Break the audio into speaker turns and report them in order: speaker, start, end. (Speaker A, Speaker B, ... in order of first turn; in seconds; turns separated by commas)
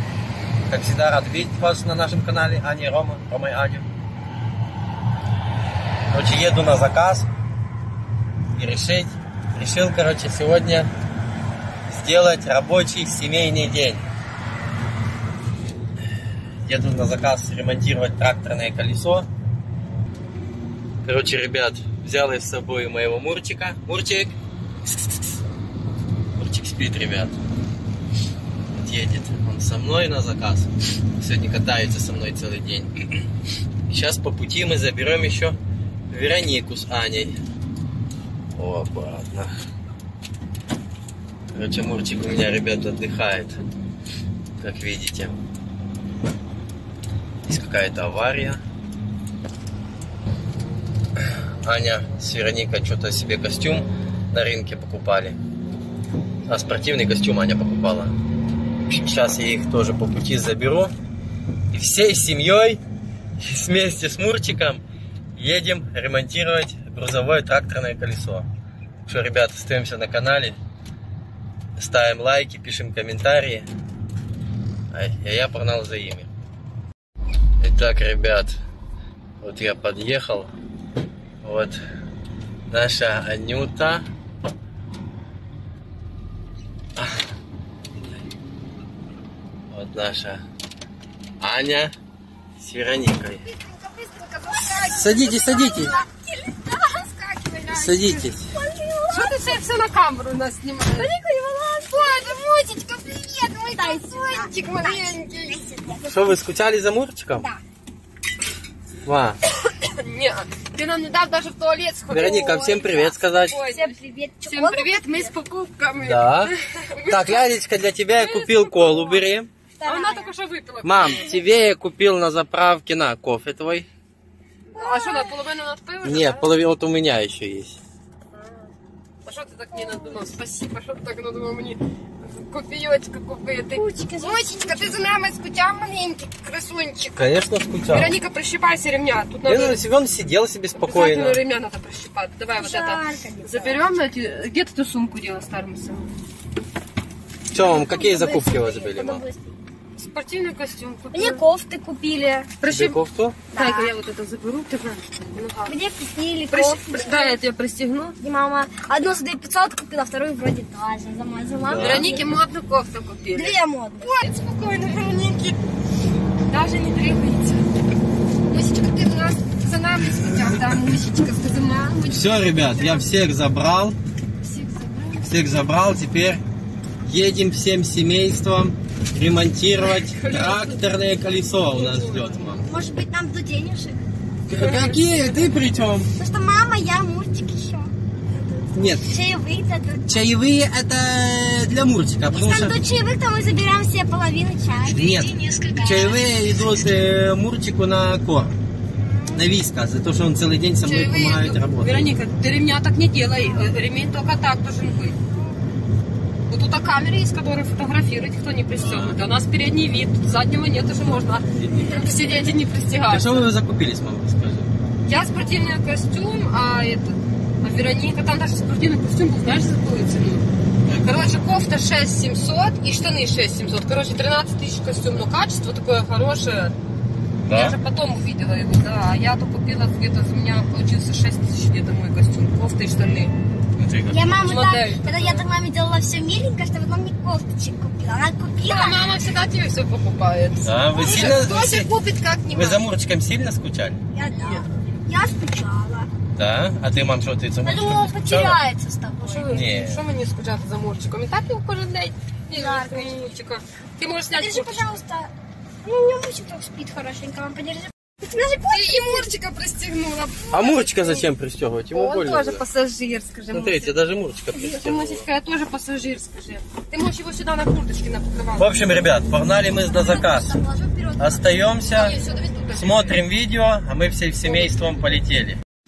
Speaker A: 0.7-3.9, Speaker A: 6.1-7.3, Speaker A: 8.5-10.9, Speaker A: 11.9-14.0, Speaker A: 16.6-19.3, Speaker A: 21.0-24.3, Speaker A: 26.4-27.4, Speaker A: 28.7-33.2, Speaker A: 33.9-35.6, Speaker A: 36.1-37.4, Speaker A: 38.5-39.5, Speaker A: 41.5-43.6, Speaker A: 44.6-45.4, Speaker A: 47.4-48.6, Speaker A: 51.6-55.4, Speaker A: 56.5-58.1, Speaker A: 58.9-60.9, Speaker A: 61.7-62.8, Speaker A: 63.4-64.8, Speaker A: 65.3-68.5, Speaker A: 69.0-70.6, Speaker A: 71.8-73.7, Speaker A: 74.9-76.3, Speaker A: 77.6-78.6, Speaker A: 79.4-80.5, Speaker A: 81.4-81.8, Speaker A: 82.7-84.0, Speaker A: 89.7-90.4, Speaker A: 91.4-91.9, Speaker A: 92.6-93.5, Speaker B: 93.4-99.7, Speaker C: 94.5-96.0, Speaker A: 95.0-96.0, Speaker C: 97.4-98.2, Speaker A: 97.7-98.5, Speaker C: 99.1-101.1, Speaker B: 100.9-106.3, Speaker C: 101.9-105.6, Speaker A: 106.0-107.5, Speaker B: 107.3-107.6, Speaker A: 109.0-109.4, Speaker C: 109.7-114.0, Speaker A: 112.1-113.6, Speaker B: 113.7-115.3, Speaker C: 114.5-117.5, Speaker A: 116.0-116.5, Speaker A: 117.1-119.5, Speaker C: 118.1-119.2, Speaker B: 119.8-120.3, Speaker C: 119.8-121.5, Speaker A: 120.8-123.9, Speaker C: 124.7-126.5, Speaker B: 124.7-125.4, Speaker A: 126.0-127.8, Speaker C: 129.2-137.2, Speaker B: 129.7-130.3, Speaker B: 133.7-135.1, Speaker A: 137.2-138.1, Speaker C: 137.9-139.8, Speaker A: 139.4-141.4, Speaker C: 140.8-146.1, Speaker B: 142.6-143.8, Speaker A: 147.5-149.2, Speaker B: 147.6-149.5, Speaker C: 150.0-151.4, Speaker B: 151.1-152.5, Speaker C: 152.6-153.0, Speaker A: 152.7-153.4, Speaker B: 153.5-153.9, Speaker C: 153.5-155.7, Speaker B: 155.7-157.4, Speaker C: 156.5-158.2, Speaker B: 158.2-162.2, Speaker A: 161.7-162.2, Speaker C: 161.8-165.6, Speaker B: 163.3-164.1, Speaker C: 166.5-167.7, Speaker C: 168.5-173.1, Speaker A: 172.1-174.0, Speaker C: 174.4-175.3, Speaker A: 175.2-176.4, Speaker A: 177.1-182.7, Speaker C: 179.8-180.8, Speaker C: 181.6-182.5, Speaker B: 182.6-184.1, Speaker A: 184.5-186.1, Speaker C: 184.6-185.4, Speaker B: 186.1-190.3, Speaker A: 188.7-189.1, Speaker A: 190.1-192.8, Speaker B: 192.3-197.0, Speaker A: 194.8-198.5, Speaker B: 199.0-199.4, Speaker A: 199.3-202.1, Speaker C: 200.8-205.2, Speaker C: 206.5-213.5, Speaker A: 208.8-209.2, Speaker A: 211.5-212.0, Speaker A: 213.1-214.7, Speaker C: 215.1-226.7, Speaker A: 227.4-227.8, Speaker C: 227.5-233.3, Speaker A: 233.8-234.3, Speaker B: 234.1-239.2, Speaker C: 234.4-235.5, Speaker C: 238.6-242.8, Speaker A: 240.6-241.9, Speaker A: 242.5-244.0, Speaker B: 244.1-246.1, Speaker C: 244.2-244.6, Speaker A: 246.3-248.6, Speaker B: 247.6-249.6, Speaker C: 249.2-254.8, Speaker A: 249.5-250.0, Speaker B: 252.5-253.3, Speaker B: 254.3-255.3, Speaker B: 255.8-259.3, Speaker C: 258.6-261.3, Speaker A: 260.5-262.6, Speaker C: 261.9-263.9, Speaker A: 263.5-265.3, Speaker C: 264.5-268.7, Speaker A: 268.6-270.6, Speaker B: 269.9-271.4, Speaker A: 271.2-272.2, Speaker C: 271.9-273.2, Speaker A: 272.8-275.6, Speaker C: 274.4-274.8